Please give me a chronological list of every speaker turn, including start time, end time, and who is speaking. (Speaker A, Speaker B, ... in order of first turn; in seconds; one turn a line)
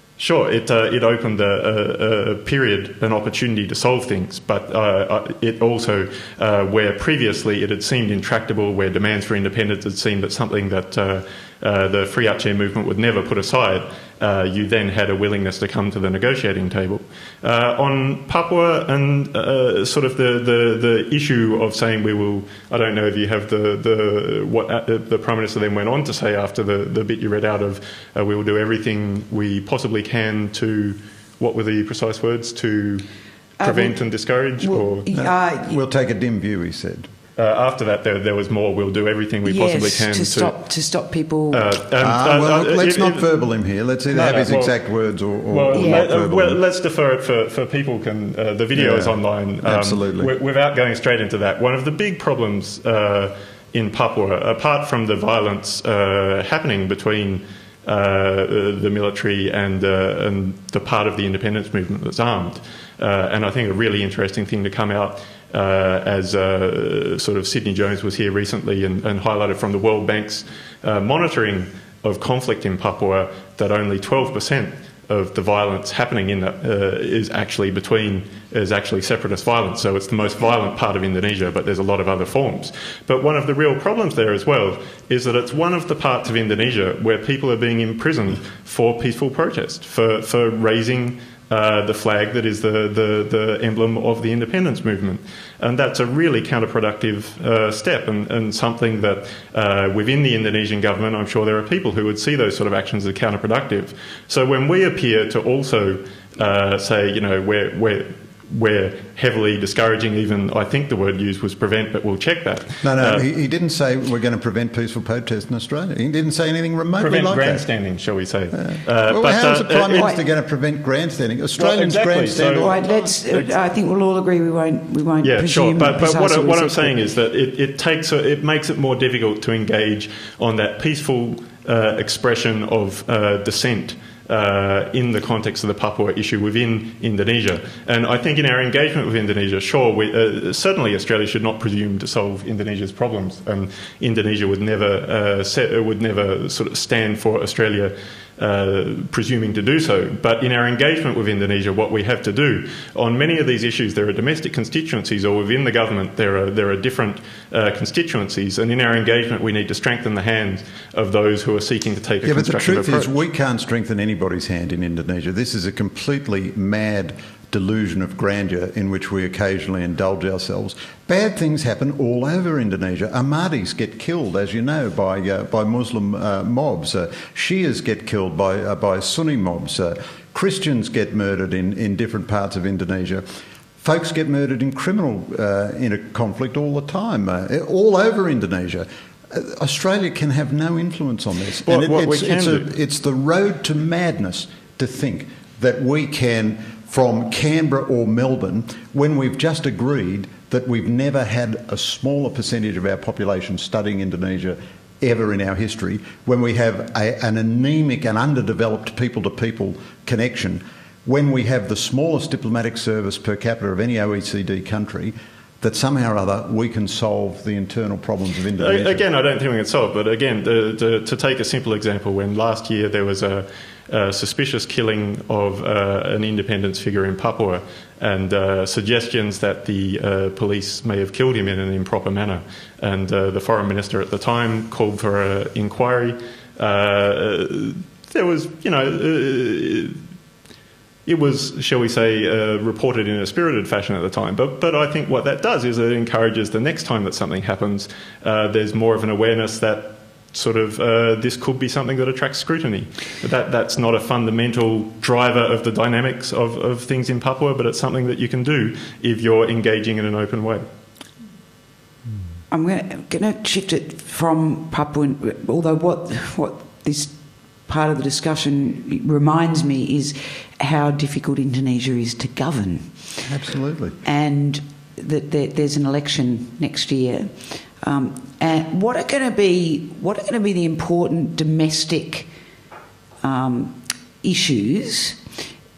Speaker A: 0.2-33.0
Speaker B: 33.6-34.0
Speaker A: 33.6-35.1
Speaker B: 34.6-35.8
Speaker C: 35.1-37.1
Speaker A: 37.4-40.5
Speaker B: 39.4-41.6
Speaker A: 41.5-43.3
Speaker C: 42.0-46.6
Speaker A: 44.1-44.8
Speaker A: 45.5-113.2
Speaker B: 45.7-46.0
Speaker C: 48.7-50.3
Speaker C: 112.8-117.6
Speaker A: 117.0-120.1
Speaker C: 118.5-122.8
Speaker A: 121.6-123.5
Speaker B: 122.6-127.0
Speaker A: 125.2-163.1
Speaker C: 162.2-183.2
Speaker C: 183.8-219.1
Speaker A: 191.6-192.7
Speaker A: 218.6-240.0
Speaker A: 241.1-260.6
Speaker B: 262.5-273.2
Speaker C: 273.2-274.0
Speaker B: 274.0-282.3
Speaker B: 283.2-285.2